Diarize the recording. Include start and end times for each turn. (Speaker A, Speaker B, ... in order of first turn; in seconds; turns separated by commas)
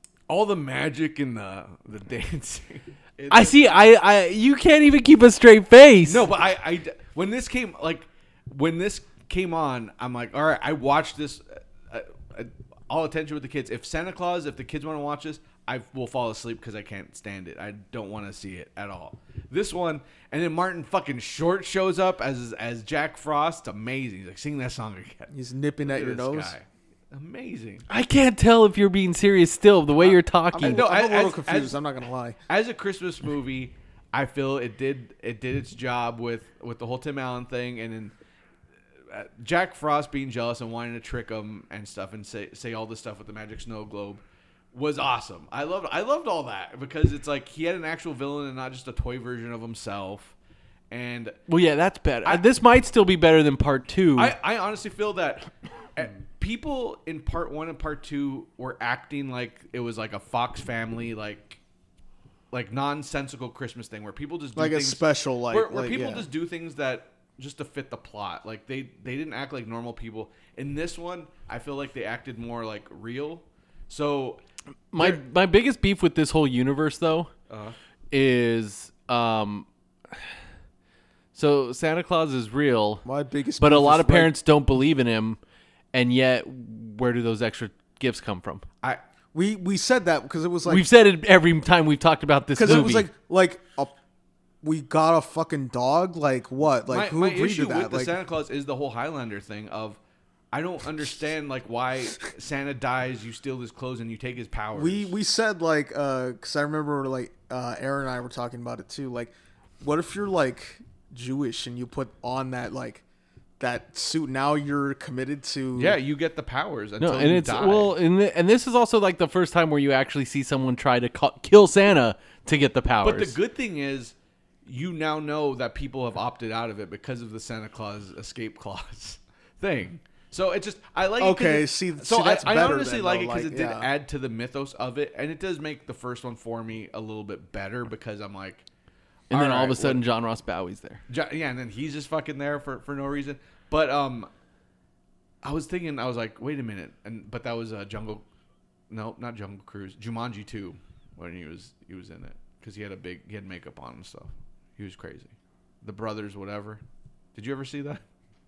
Speaker A: 0.3-3.6, Speaker B: 3.3-6.3, Speaker A: 6.1-27.9, Speaker C: 25.3-26.6, Speaker B: 27.9-30.8, Speaker A: 30.0-31.8, Speaker C: 30.5-32.4, Speaker A: 32.5-38.1, Speaker A: 39.1-44.2, Speaker A: 44.7-50.4, Speaker A: 50.9-51.4, Speaker B: 51.5-54.4, Speaker A: 54.2-61.6, Speaker A: 62.5-74.4, Speaker C: 64.6-66.3, Speaker B: 74.9-77.3, Speaker A: 77.5-77.8, Speaker B: 78.1-79.7, Speaker B: 81.3-83.0, Speaker C: 83.0-84.3, Speaker B: 83.6-85.4, Speaker B: 85.9-88.7, Speaker C: 89.3-90.8, Speaker B: 90.7-93.1, Speaker C: 92.5-93.9, Speaker C: 94.6-98.2, Speaker A: 96.9-100.0, Speaker A: 100.5-105.1, Speaker C: 104.7-113.0, Speaker C: 113.6-116.0, Speaker A: 115.8-118.0, Speaker B: 117.0-123.3, Speaker A: 123.0-138.7, Speaker C: 131.2-133.9, Speaker B: 139.3-141.0, Speaker A: 139.3-140.0, Speaker A: 141.1-144.3, Speaker A: 145.4-148.2, Speaker A: 148.9-156.8, Speaker A: 157.3-158.0